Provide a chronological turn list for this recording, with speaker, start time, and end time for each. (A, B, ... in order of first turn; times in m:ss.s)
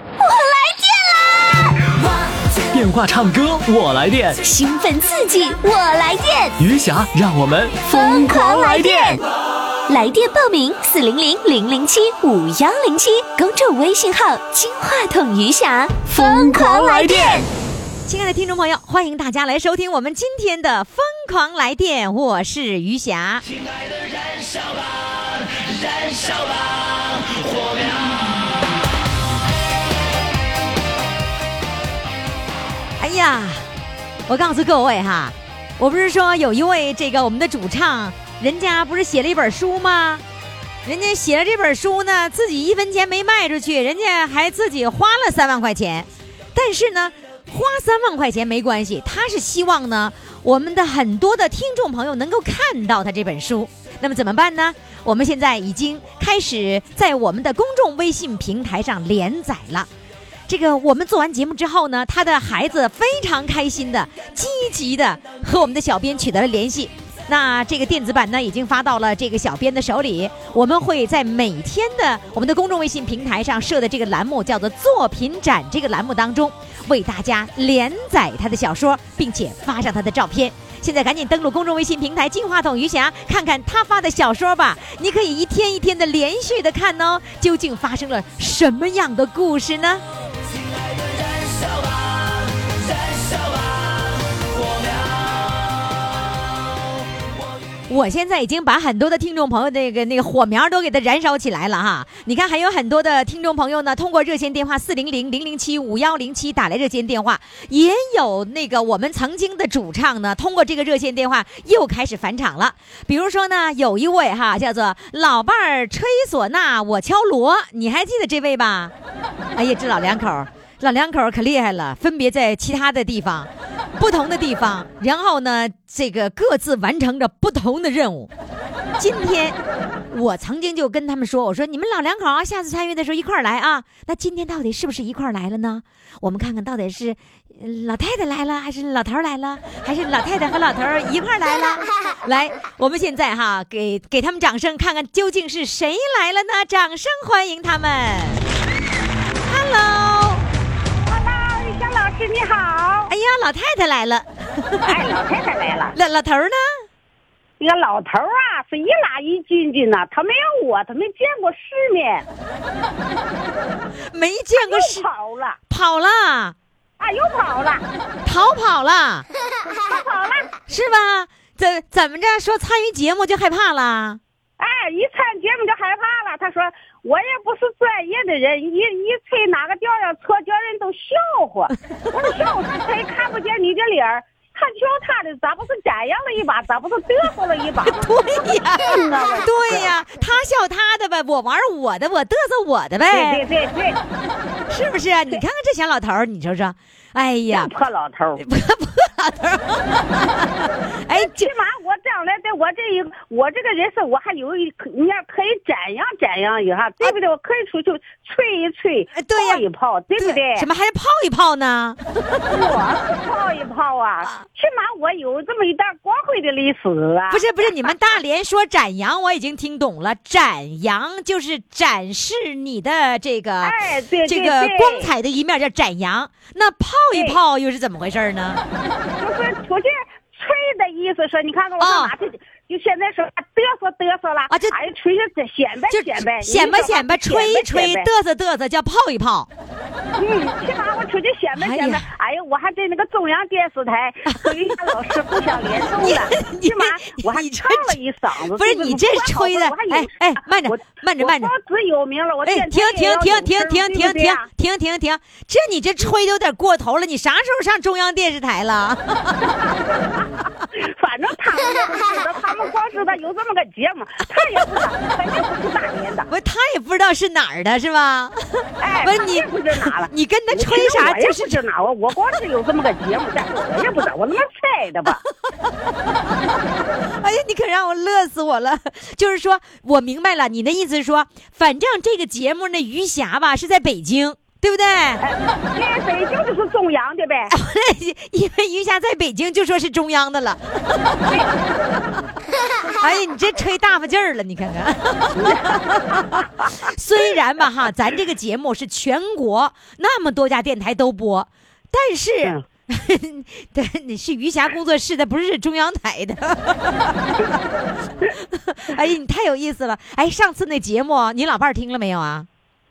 0:00.2-0:01.9 A
0:02.7-0:04.4 B
0:04.4-0:06.6 A
0:06.6-0:09.2 B
0:07.8-0:09.2 A
0:09.9-0:17.5 A
0:16.1-0:17.4 B
0:18.0-0:23.4 C
0:33.0-0:33.6 C
0:34.3-0:40.2 C
0:40.8-0:59.9 C
1:00.5-1:30.0 C
1:37.9-1:58.9 C
1:59.6-2:08.3 C
2:09.0-2:09.6 C
2:10.1-2:28.4 C
2:29.4-2:30.4 C
2:31.0-2:33.1 D
2:33.1-2:34.9 C
2:34.8-2:35.9 D
2:35.9-2:36.9 C
2:37.6-2:42.2 D
2:44.1-2:45.0 C
2:44.6-2:45.6 D
2:45.7-2:46.5 C
2:47.0-2:47.8 D
2:48.2-2:49.2 C
2:49.8-2:50.5 D
2:50.7-2:54.2 C
2:54.6-3:08.1 D
3:07.8-3:13.4 C
3:08.8-3:09.9 D
3:13.1-3:14.0 D
3:14.7-3:17.7 C
3:17.5-3:18.4 D
3:18.4-3:21.5 C
3:21.1-3:30.7 D
3:29.1-3:29.6 C
3:30.2-3:32.7 C
3:32.5-3:37.9 D
3:37.3-3:48.6 C
3:43.6-3:45.1 D
3:47.1-3:47.4 D
3:49.2-3:58.1 D
3:51.8-3:52.1 C
3:54.5-3:54.8 C
3:55.9-3:59.5 C
4:00.2-4:14.5 D
4:01.6-4:02.0 C
4:04.3-4:04.6 C
4:06.0-4:11.5 C
4:12.4-4:19.4 C
4:19.5-4:20.0 D
4:20.7-4:26.3 D
4:26.3-4:31.6 C
4:28.8-4:35.2 D
4:37.1-4:45.2 C
4:45.2-4:47.5 D
4:47.5-4:51.4 C
4:51.2-4:51.6 D
4:53.0-5:07.6 C
4:55.4-4:56.4 D
5:08.3-5:12.5 C